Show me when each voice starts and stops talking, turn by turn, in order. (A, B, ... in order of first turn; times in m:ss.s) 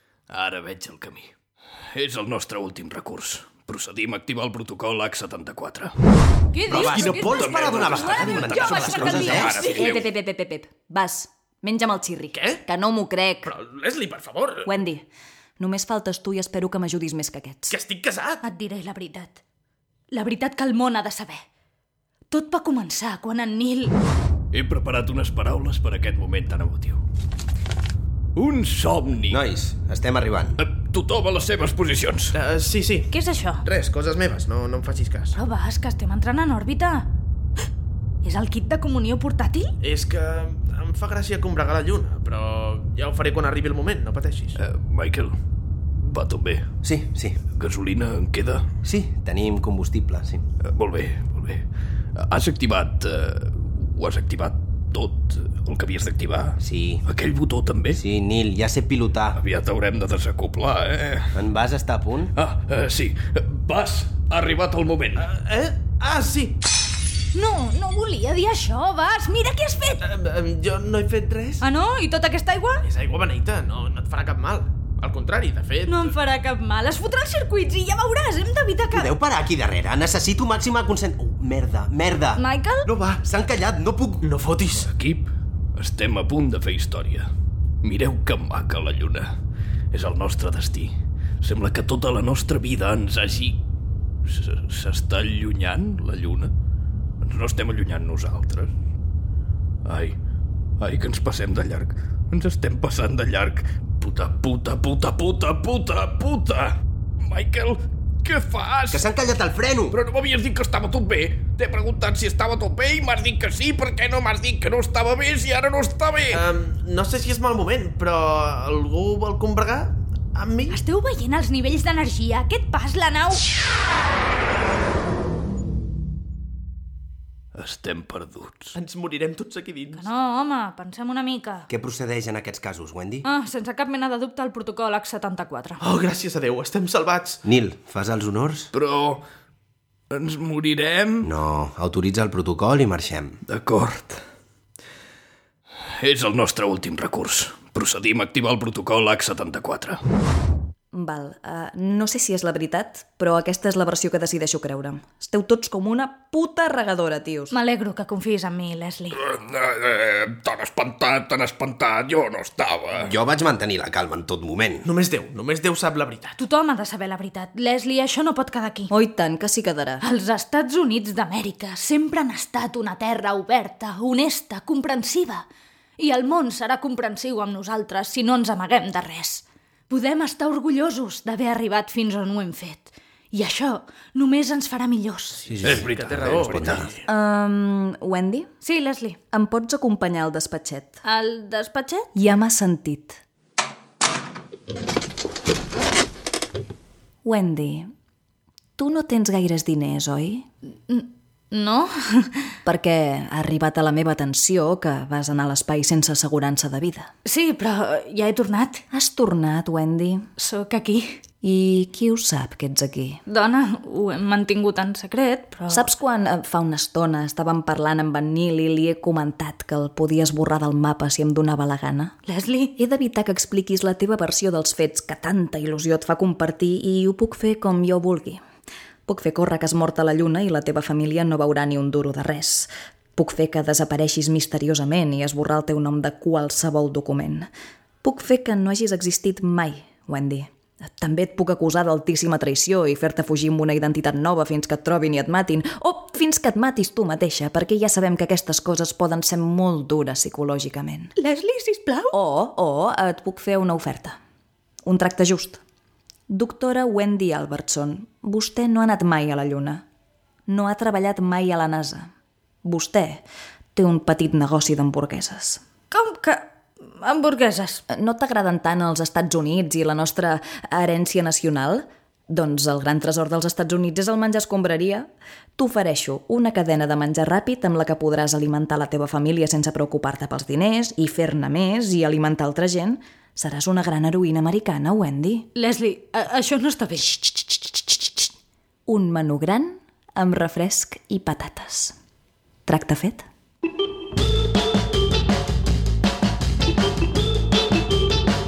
0:00.3-0:01.3 A
0:01.9-0:05.9 A
0:06.5-0:09.9 B
0:06.7-0:09.5 C
0:06.7-0:10.1 A
0:09.3-0:13.5 D
0:12.3-0:12.6 E
0:13.4-0:14.8 E
0:14.6-0:15.1 D
0:15.6-0:17.7 D
0:17.7-0:18.4 E
0:18.4-0:19.4 B
0:20.1-0:21.4 B
0:22.3-0:23.9 B
0:24.5-0:27.0 A
0:28.4-0:29.4 A
0:29.3-0:30.6 C
0:30.6-0:32.3 A
0:32.3-0:35.4 E
0:33.1-0:33.6 B
0:35.3-0:37.1 B
0:38.2-0:39.7 B
0:39.8-0:44.6 E
0:44.6-0:45.3 A
0:46.0-0:46.7 A
0:46.8-0:47.4 C
0:47.5-0:48.6 A
0:48.8-0:50.4 C
0:50.6-0:51.6 A
0:52.2-0:58.0 A
0:56.6-0:57.0 C
0:57.9-0:59.4 C
0:59.3-1:01.3 A
1:01.3-1:02.3 C
1:02.3-1:05.3 A
1:05.2-1:06.6 E
1:07.3-1:10.0 B
1:10.0-1:11.6 E
1:11.6-1:12.8 B
1:12.8-1:16.2 E
1:15.9-1:19.1 B
1:18.9-1:24.2 C
1:22.4-1:22.9 B
1:24.2-1:24.9 E
1:24.8-1:27.3 A
1:27.8-1:29.3 A
1:29.9-1:30.9 A
1:31.4-1:33.6 A
1:34.2-1:36.5 A
1:37.2-1:38.7 A
1:39.8-1:40.2 A
1:40.8-1:49.0 A
1:48.9-1:50.0 C
1:49.9-1:56.4 A
1:56.3-2:00.8 E
2:00.7-2:03.4 B
2:07.5-2:08.7 A
2:08.7-2:10.1 E
2:09.9-2:11.7 B
2:11.7-2:13.3 C
2:13.2-2:15.8 B
2:15.8-2:17.4 E
2:17.4-2:18.7 C
2:18.7-2:19.2 A
2:20.1-2:21.3 A
2:21.2-2:23.4 C
2:23.5-2:24.2 A
2:26.0-2:30.0 A
2:30.9-2:37.5 D
2:37.5-2:39.2 B
2:39.1-2:43.1 A
2:42.9-2:44.8 C
2:44.8-2:46.4 E
2:46.4-2:48.9 B
2:48.9-2:50.0 D
2:50.0-2:55.4 B
2:56.0-3:05.5 B
3:05.5-3:06.9 C
3:05.5-3:07.0 E
3:05.6-3:07.0 A
3:07.0-3:08.5 D
3:08.6-3:09.2 B
3:09.3-3:11.0 D
3:11.0-3:12.1 B
3:12.1-3:13.2 D
3:17.2-3:17.9 D
3:18.8-3:20.4 D
3:20.9-3:22.5 B
3:22.6-3:27.1 D
3:27.2-3:28.8 B
3:28.9-3:30.3 D
3:30.4-3:31.2 B
3:31.4-3:33.2 D
3:33.3-3:35.9 B
3:35.7-3:42.2 D
3:42.2-3:42.8 B
3:42.8-3:48.4 D
3:49.1-3:57.5 D
3:58.0-4:11.1 D
4:11.2-4:12.1 B
4:12.1-4:14.2 D
4:14.8-4:15.6 D
4:16.3-4:19.8 D
4:20.5-4:22.1 D
4:22.6-4:23.2 D
4:23.7-4:25.6 D
4:25.9-4:27.8 B
4:27.9-4:45.5 D
4:45.5-4:48.2 B
4:48.9-4:51.9 D
4:52.7-4:53.2 D